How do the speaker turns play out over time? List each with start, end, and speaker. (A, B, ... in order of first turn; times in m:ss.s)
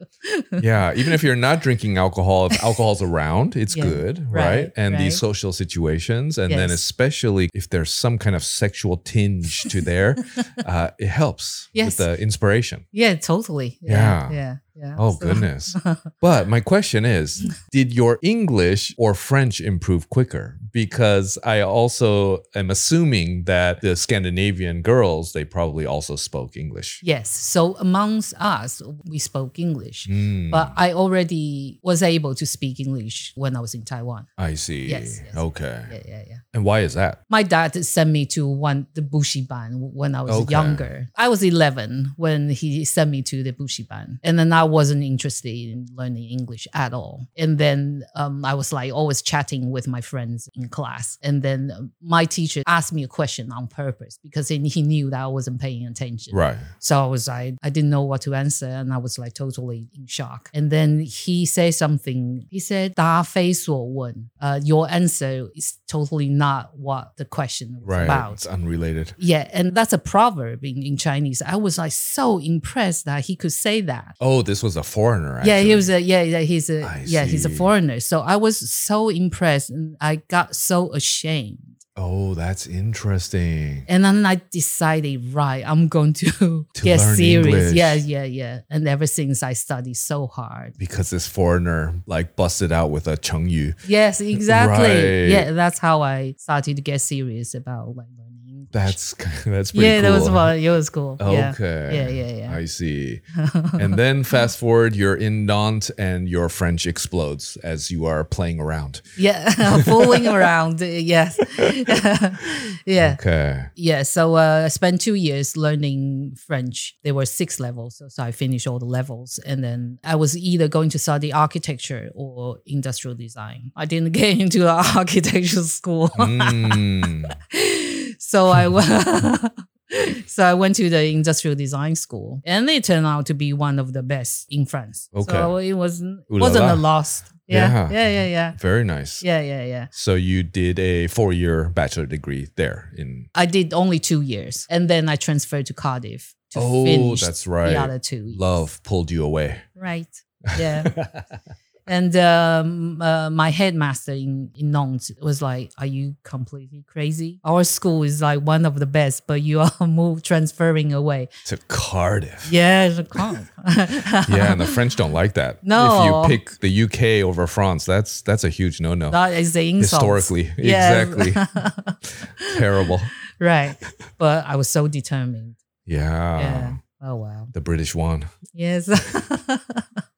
0:00.2-0:00.6 A
0:00.6-0:12.8 B
0:03.7-0:05.2 A
0:06.5-0:06.8 A
0:11.7-0:12.1 A
0:12.9-0:16.1 A
0:13.9-0:14.4 B
0:15.0-0:27.0 B
0:27.0-0:34.3 A
0:30.1-0:30.8 B
0:34.4-0:35.9 B
0:34.8-0:36.4 A
0:36.5-0:37.2 B
0:37.3-1:08.4 A
0:40.3-0:40.9 B
0:56.3-0:56.7 B
1:07.8-1:09.2 B
1:09.2-1:14.2 A
1:14.2-1:15.9 B
1:15.4-1:21.8 A
1:16.8-1:17.7 B
1:22.0-1:23.9 B
1:23.9-1:30.8 A
1:26.8-1:28.0 B
1:30.8-1:33.8 B
1:33.8-1:39.0 A
1:34.3-1:35.5 B
1:38.7-1:40.5 B
1:39.7-1:42.6 A
1:41.2-1:43.2 B
1:43.4-1:44.0 A
1:43.8-1:49.0 B
1:49.2-1:53.2 A
1:49.7-1:50.5 B
1:53.0-1:53.7 B
1:53.7-2:18.6 A
2:06.2-2:07.4 B
2:15.1-2:15.5 B
2:16.3-2:16.8 B
2:17.4-2:19.3 B
2:19.2-2:19.9 A
2:19.9-2:23.3 B
2:23.3-2:28.7 A
2:26.6-2:29.6 B
2:29.8-2:31.0 A
2:30.5-2:31.2 B
2:31.9-2:41.3 A
2:41.4-2:42.5 B
2:42.4-2:44.8 A
2:44.2-2:49.2 B
2:45.6-2:46.4 A
2:49.1-2:52.6 A
2:49.8-2:51.4 B
2:52.4-2:53.1 B
2:53.4-2:55.6 A
2:55.9-2:56.8 B
2:56.4-2:57.5 A
2:57.5-2:58.3 B
2:58.5-2:59.9 A